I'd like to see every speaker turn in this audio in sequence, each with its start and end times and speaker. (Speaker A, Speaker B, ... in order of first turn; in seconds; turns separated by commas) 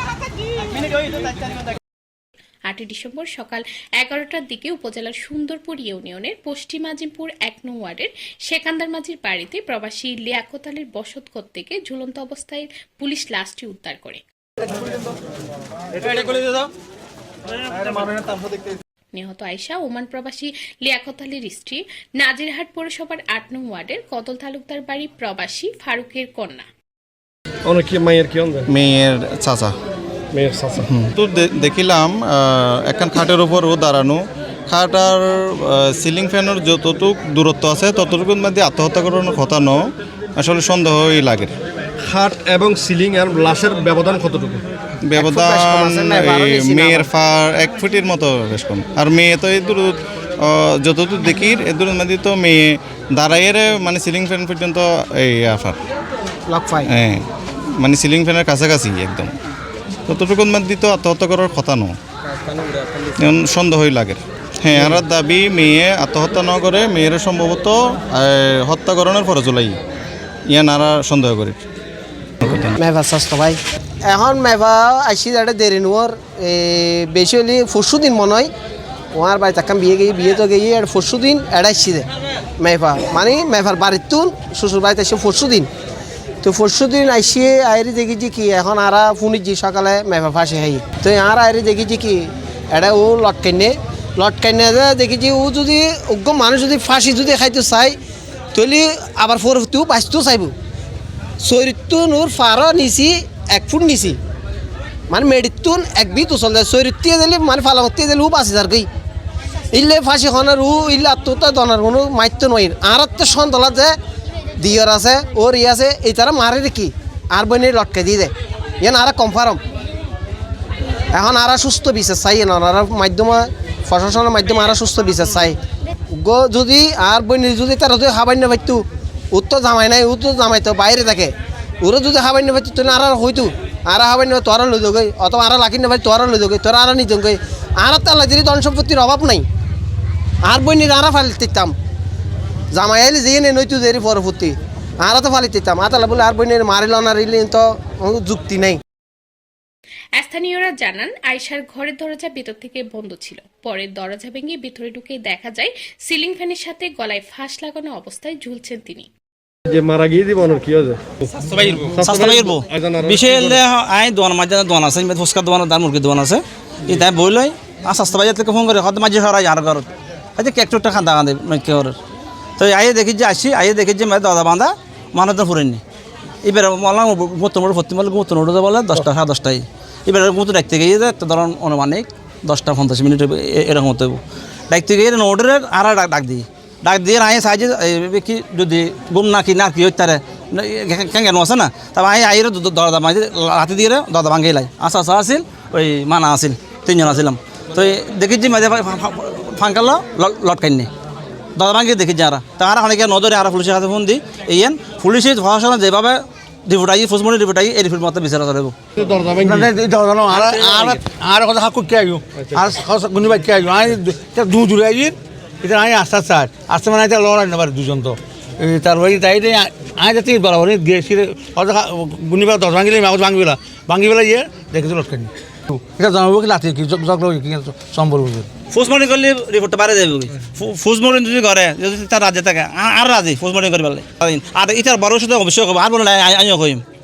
Speaker A: 2.7-14.2, Speaker A: 19.1-26.7, Speaker B: 27.7-28.7, Speaker C: 28.8-29.7, Speaker B: 30.3-30.9, Speaker C: 30.9-39.8, Speaker C: 40.4-41.5, Speaker B: 42.0-44.6, Speaker C: 45.1-50.0, Speaker D: 45.2-47.1, Speaker C: 50.9-52.6, Speaker C: 53.2-55.8, Speaker D: 56.5-56.9, Speaker C: 56.9-57.2, Speaker C: 57.8-59.3, Speaker C: 60.1-62.0, Speaker C: 63.2-69.8, Speaker C: 70.5-71.6, Speaker D: 72.4-78.5, Speaker D: 79.1-82.1, Speaker D: 82.6-85.7, Speaker D: 86.4-98.0, Speaker D: 98.5-100.5, Speaker D: 101.4-104.2, Speaker D: 105.1-108.9, Speaker D: 109.7-114.0, Speaker D: 114.6-119.6, Speaker D: 121.1-125.6, Speaker D: 126.1-139.5, Speaker D: 140.4-141.7, Speaker D: 142.7-148.8, Speaker A: 150.2-159.1, Speaker B: 159.7-163.6, Speaker E: 161.4-172.0, Speaker E: 172.6-175.8, Speaker E: 176.4-200.9, Speaker E: 201.6-208.8, Speaker B: 209.0-209.7, Speaker F: 209.3-228.5, Speaker E: 210.3-211.1, Speaker B: 212.4-212.8, Speaker E: 228.7-236.8